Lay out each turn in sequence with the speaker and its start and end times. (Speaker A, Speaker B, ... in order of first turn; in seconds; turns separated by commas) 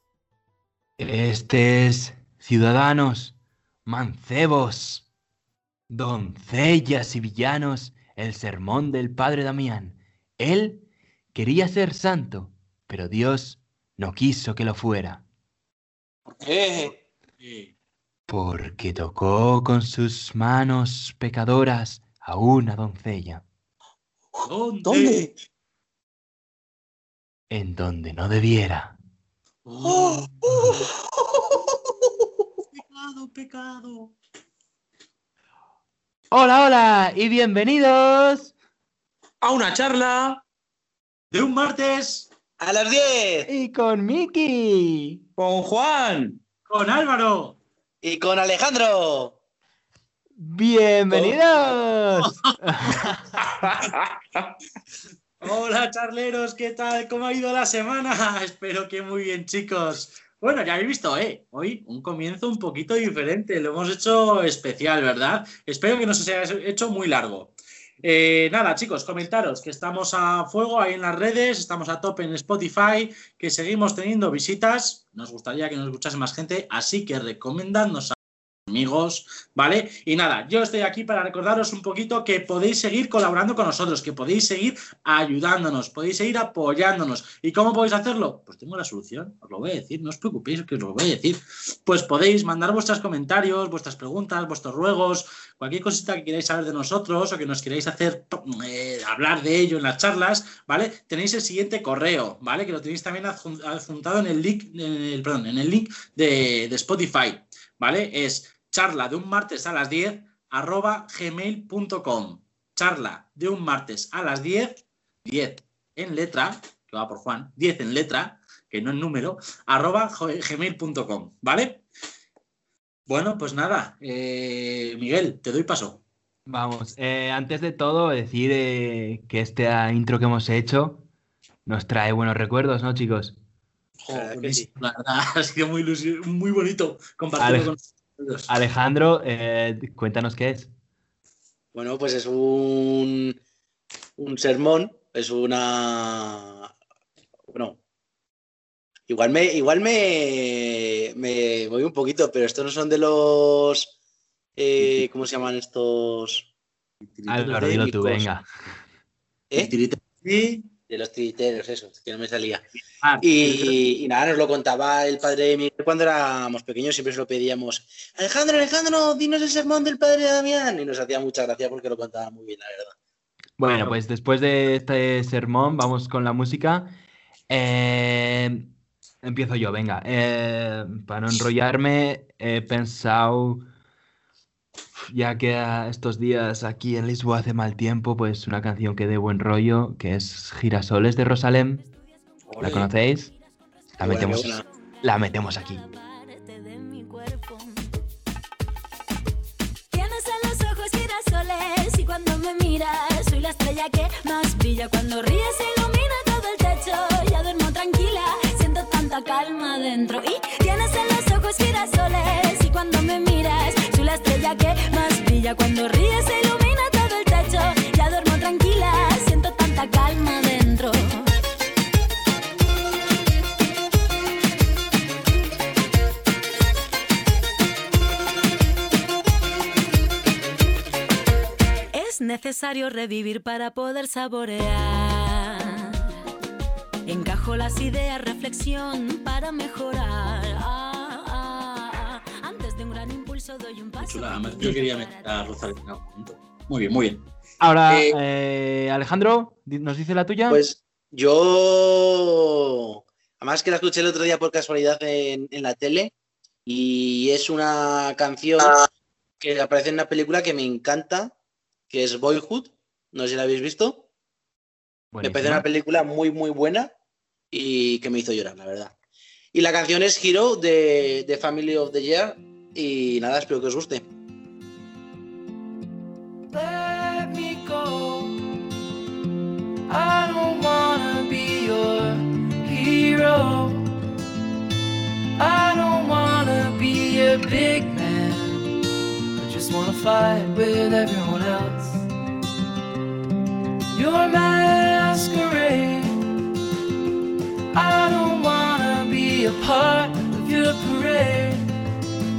Speaker A: 1.0-3.4, Speaker A: 3.9-5.1, Speaker A: 5.9-15.2, Speaker B: 16.3-16.9, Speaker C: 17.4-17.7, Speaker A: 18.3-23.4, Speaker C: 24.5-25.3, Speaker B: 24.9-25.3, Speaker A: 27.5-28.9, Speaker C: 29.7-30.9, Speaker B: 29.8-30.8, Speaker C: 32.7-34.1, Speaker A: 36.3-38.5, Speaker D: 39.4-40.4, Speaker C: 41.3-42.3, Speaker B: 42.6-43.5, Speaker A: 43.5-45.2, Speaker D: 45.4-46.4, Speaker C: 46.7-47.6, Speaker B: 48.0-49.4, Speaker A: 50.4-53.3, Speaker B: 51.1-51.8, Speaker C: 52.2-52.5, Speaker D: 53.6-54.5, Speaker C: 55.4-78.2, Speaker C: 78.7-121.8, Speaker C: 123.1-126.0, Speaker A: 126.5-131.0, Speaker A: 131.7-133.4, Speaker C: 134.0-138.5, Speaker B: 134.1-134.7, Speaker A: 137.4-137.7, Speaker A: 138.5-140.7, Speaker B: 141.7-143.4, Speaker B: 144.2-146.7, Speaker B: 147.5-147.8, Speaker B: 149.1-153.9, Speaker B: 154.6-156.5, Speaker C: 157.0-158.3, Speaker A: 157.3-158.5, Speaker C: 159.6-160.7, Speaker B: 160.9-162.6, Speaker C: 163.0-163.8, Speaker B: 163.2-172.9, Speaker A: 173.6-176.9, Speaker C: 173.7-173.9, Speaker A: 177.5-178.7, Speaker A: 179.2-183.7, Speaker A: 185.1-191.8, Speaker C: 192.5-192.9, Speaker A: 192.6-193.3, Speaker B: 194.0-194.6, Speaker A: 194.0-195.8, Speaker E: 194.1-197.9, Speaker E: 199.9-221.3, Speaker E: 231.9-236.0, Speaker E: 237.1-245.3, Speaker C: 244.0-247.2, Speaker A: 247.6-250.6, Speaker C: 247.9-248.2, Speaker B: 250.5-256.1, Speaker B: 256.7-258.9, Speaker B: 259.4-261.3, Speaker B: 261.9-264.1, Speaker A: 265.1-265.6, Speaker B: 265.2-266.9, Speaker B: 267.5-268.9, Speaker B: 269.5-274.1, Speaker F: 276.5-278.4, Speaker F: 279.9-283.9, Speaker F: 285.4-288.7, Speaker F: 289.4-292.1, Speaker F: 293.9-296.2, Speaker F: 297.7-301.7